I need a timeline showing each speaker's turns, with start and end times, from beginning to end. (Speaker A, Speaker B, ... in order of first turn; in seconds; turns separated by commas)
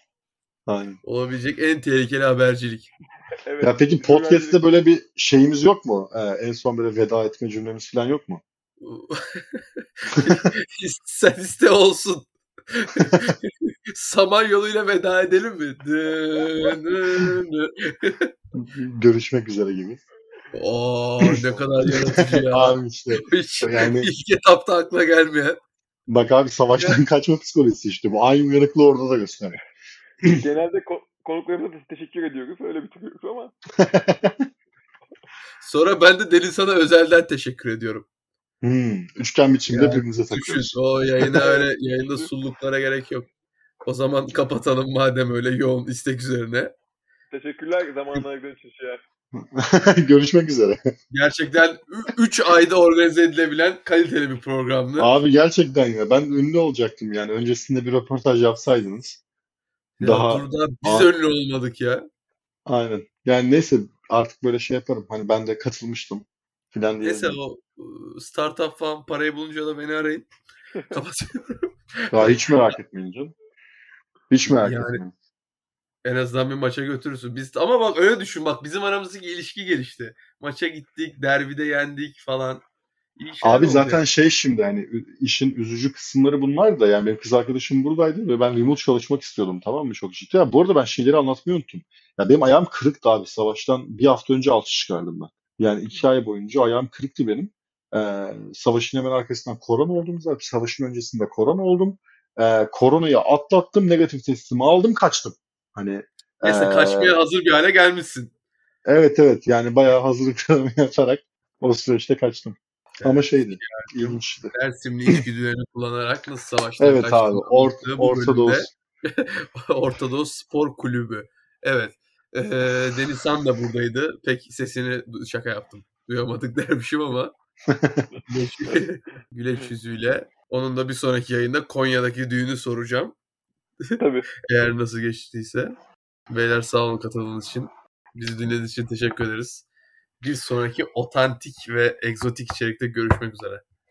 Speaker A: 0.7-1.0, Speaker B: 1.0-2.9, Speaker C: 3.5-4.6, Speaker A: 3.6-8.4, Speaker B: 8.8-18.3, Speaker A: 10.2-10.4, Speaker A: 13.0-13.3, Speaker A: 18.5-20.0, Speaker B: 20.5-25.6, Speaker A: 21.3-24.1, Speaker A: 26.1-29.6, Speaker C: 30.2-33.5, Speaker A: 33.8-34.5, Speaker B: 35.6-38.1, Speaker A: 38.6-41.4, Speaker B: 39.7-43.3, Speaker C: 41.4-42.3, Speaker B: 43.9-46.7, Speaker C: 47.3-49.0, Speaker A: 49.4-50.8, Speaker B: 51.1-55.2, Speaker A: 55.0-59.2, Speaker B: 60.0-62.1, Speaker A: 60.0-61.1, Speaker A: 62.7-67.4, Speaker B: 67.0-70.3, Speaker B: 70.9-72.7, Speaker A: 72.1-73.3, Speaker A: 74.3-75.1, Speaker B: 74.5-75.0, Speaker B: 76.0-82.7, Speaker B: 83.2-84.0, Speaker A: 83.4-107.2, Speaker B: 106.5-108.3, Speaker A: 108.9-114.5, Speaker B: 113.0-127.3, Speaker A: 116.8-118.7, Speaker A: 127.7-128.1, Speaker B: 128.3-133.2, Speaker B: 133.8-135.8, Speaker C: 134.0-134.3, Speaker B: 136.3-139.7, Speaker B: 140.2-143.6